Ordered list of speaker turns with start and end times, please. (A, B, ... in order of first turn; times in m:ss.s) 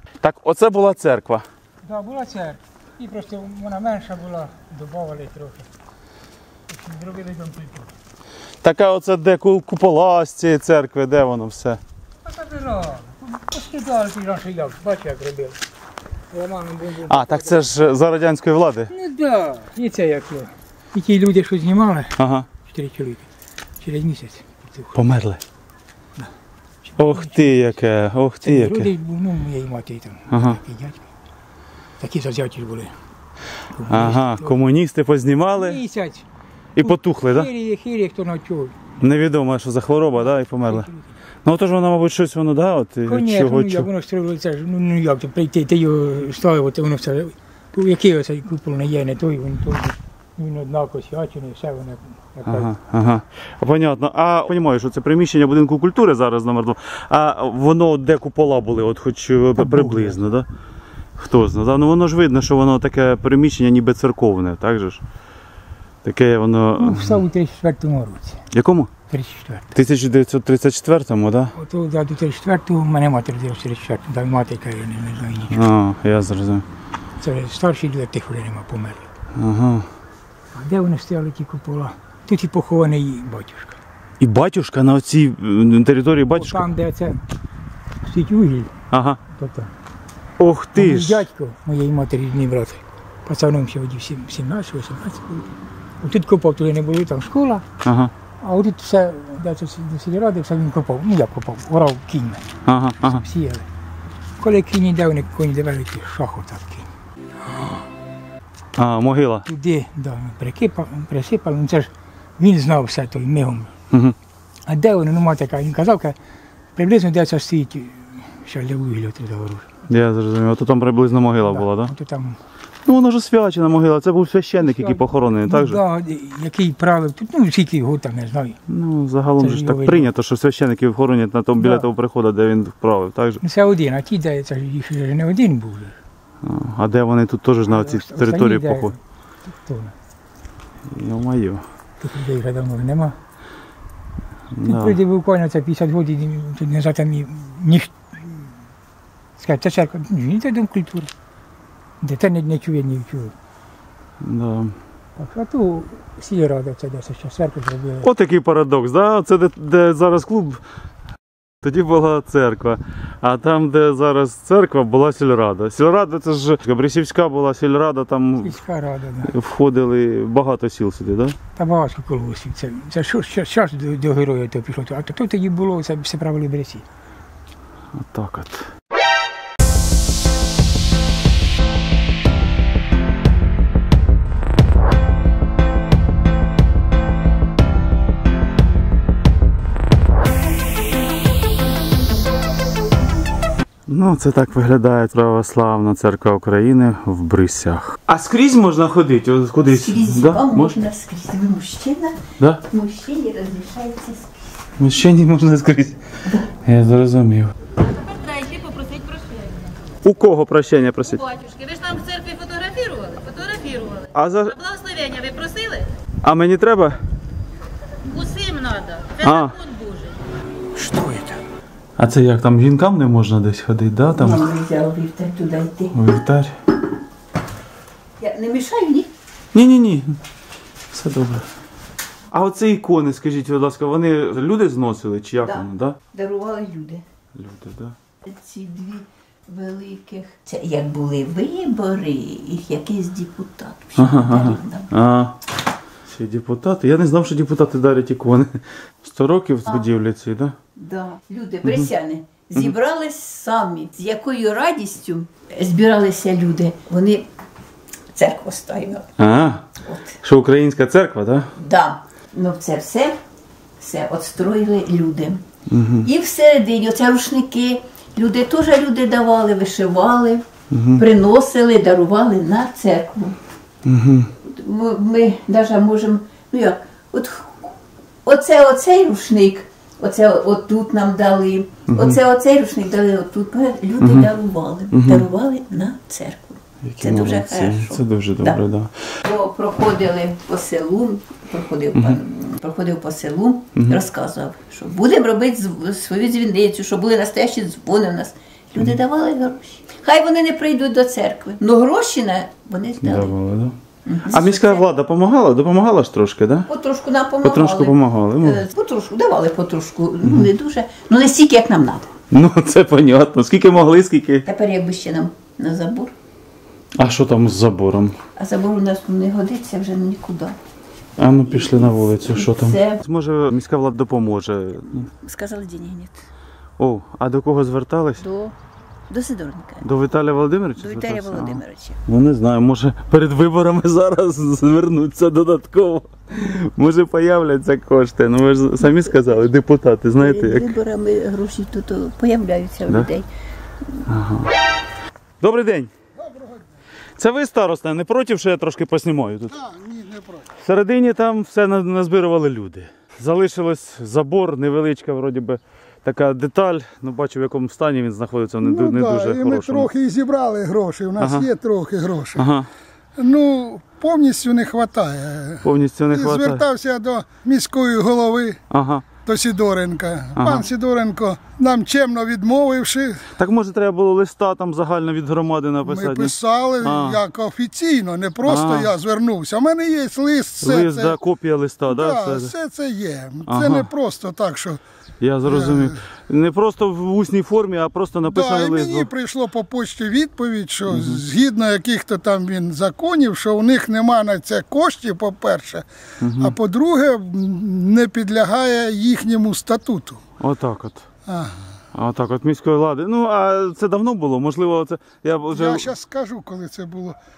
0:00.2-0:01.4 A
0:01.8-0:05.7 B
0:06.7-0:07.9 B
0:08.6-0:11.8 A
0:12.2-0:15.6 B
0:16.3-0:17.6 B
0:17.1-0:18.9 A
0:18.9-0:23.3 B
0:22.2-0:22.5 A
0:23.8-0:25.0 B
0:25.0-0:25.4 A
0:26.9-0:27.8 B
0:27.0-0:28.9 A
0:28.4-0:31.1 B
0:30.3-0:30.6 A
0:32.0-0:32.9 B
0:33.7-0:34.6 B
0:33.9-0:35.8 A
0:35.6-0:36.3 B
0:36.8-0:37.5 A
0:36.8-0:38.8 B
0:39.0-0:40.9 A
0:40.6-0:41.1 B
0:41.4-0:43.9 A
0:43.1-0:52.7 B
0:52.5-1:00.5 A
0:59.6-1:00.2 B
1:01.2-1:05.0 A
1:06.0-1:07.2 A
1:06.8-1:08.4 B
1:08.5-1:08.9 A
1:09.1-1:09.7 B
1:09.7-1:11.5 A
1:11.5-1:15.7 B
1:15.5-1:16.6 A
1:17.2-1:19.0 B
1:19.4-1:19.9 A
1:20.5-1:23.8 B
1:24.2-1:26.7 A
1:26.4-1:27.2 B
1:28.0-1:28.7 B
1:28.9-1:29.2 A
1:29.3-1:29.7 B
1:30.4-1:31.3 A
1:30.8-1:35.5 B
1:36.0-1:37.6 B
1:37.8-1:38.1 A
1:38.4-1:42.5 B
1:42.7-1:43.2 A
1:43.0-1:43.7 B
1:44.4-1:46.9 B
1:48.8-1:49.4 A
1:49.5-1:53.7 B
1:54.7-1:56.2 B
1:56.8-1:59.8 B
1:59.9-2:01.9 A
2:01.4-2:02.4 B
2:02.8-2:05.8 A
2:04.6-2:08.6 B
2:08.7-2:13.4 A
2:09.4-2:10.1 B
2:11.6-2:11.9 B
2:13.4-2:16.0 B
2:16.4-2:18.9 A
2:17.7-2:20.0 B
2:20.9-2:21.6 A
2:22.0-2:23.2 B
2:24.5-2:25.0 A
2:24.6-2:28.3 B
2:29.4-2:31.1 B
2:32.0-2:33.3 B
2:34.2-2:34.8 A
2:35.2-2:38.1 B
2:38.0-2:40.6 A
2:41.6-2:48.6 A
2:48.4-2:49.3 B
2:49.3-2:51.4 A
2:51.6-2:56.8 B
2:58.0-2:58.6 A
3:13.9-3:20.8 A
3:19.6-3:24.5 C
3:24.8-3:26.0 A
3:26.6-3:27.5 A
3:28.0-3:29.5 D
3:30.0-3:31.3 A
3:31.3-3:35.9 D
3:34.1-3:34.6 A
3:36.2-3:37.0 A
3:38.1-3:40.2 D
3:39.2-3:39.6 A
3:40.8-3:41.4 B
3:42.0-3:44.4 A
3:44.1-3:45.9 C
3:45.9-3:46.6 A
3:48.2-3:49.1 C
3:49.5-3:50.2 A
3:50.9-3:51.5 A
3:52.3-3:56.0 A
3:55.4-3:57.0 C
3:57.4-3:58.0 A
3:58.2-4:04.9 C
4:04.0-4:05.4 A
4:06.1-4:10.6 A
4:10.8-4:17.3 C
4:18.1-4:19.1 C
4:19.2-4:19.7 A
4:19.8-4:20.2 C
4:20.2-4:21.5 A
4:21.6-4:23.2 C
4:23.8-4:25.4 C
4:25.7-4:26.1 A
4:26.0-4:33.4 C
4:30.7-4:31.0 A
4:33.8-4:34.3 A
4:34.4-4:48.6 C
4:41.9-4:42.2 A
4:44.0-4:44.3 A
4:44.9-4:45.3 A
4:46.9-4:49.0 A
4:49.2-5:03.4 C
4:53.8-4:54.0 A
5:03.0-5:03.8 A
5:04.1-5:04.9 C
5:04.3-5:06.7 A
5:06.7-5:12.2 C
5:07.4-5:08.6 A
5:10.2-5:10.5 A
5:12.3-5:14.4 A
5:14.5-5:16.1 C
5:17.0-5:18.2 A
5:18.4-5:20.6 C
5:21.2-5:25.1 A
5:21.5-5:23.0 C
5:25.2-5:26.2 C
5:26.8-5:28.2 A
5:28.2-5:28.5 C
5:29.1-5:29.8 C
5:29.8-5:40.8 A
5:30.8-5:32.0 C
5:40.2-5:43.3 C
5:44.1-5:44.5 A
5:45.4-5:45.9 A
5:46.2-5:46.7 E
5:47.2-5:49.5 A
5:49.5-5:50.5 E
5:50.6-5:59.9 A
5:58.6-6:02.4 E
6:01.2-6:01.5 A
6:02.4-6:02.7 A
6:03.2-6:08.6 E
6:05.6-6:06.6 A
6:08.7-6:09.1 A
6:09.2-6:13.3 E
6:10.4-6:10.7 A
6:13.4-6:17.2 A
6:15.8-6:21.2 E
6:18.4-6:18.9 A
6:20.6-6:22.5 A
6:21.9-6:24.8 E
6:23.5-6:23.9 A
6:25.2-6:29.1 A
6:25.5-6:26.0 E
6:28.3-6:35.8 E
6:30.9-6:31.2 A
6:36.2-6:36.6 A
6:36.4-6:40.2 E
6:40.4-6:41.0 A
6:41.3-6:41.6 E
6:41.9-6:45.9 A
6:45.5-6:47.2 E